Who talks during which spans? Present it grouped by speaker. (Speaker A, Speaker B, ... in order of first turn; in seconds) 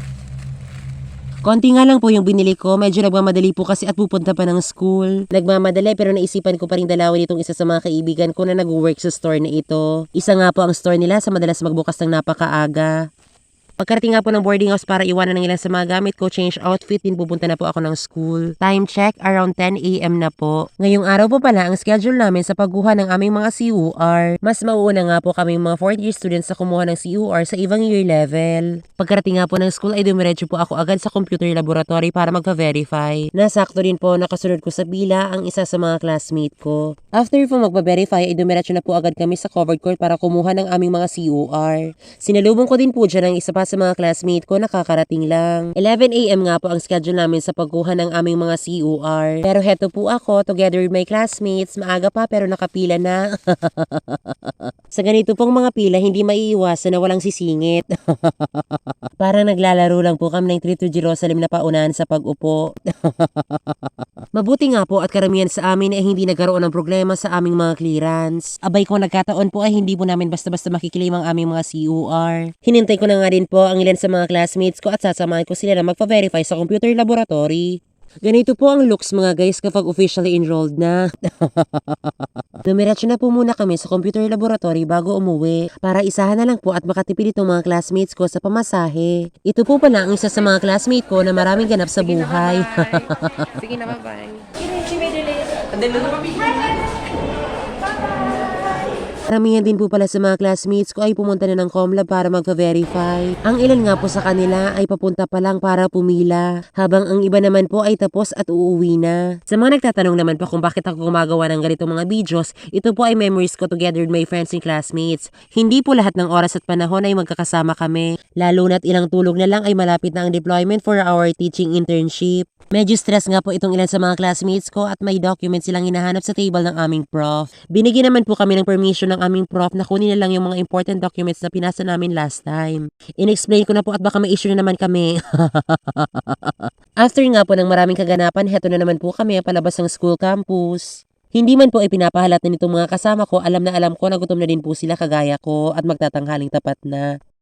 Speaker A: 1.5-12.9, 13.8-94.4, 99.3-140.8, 141.4-147.1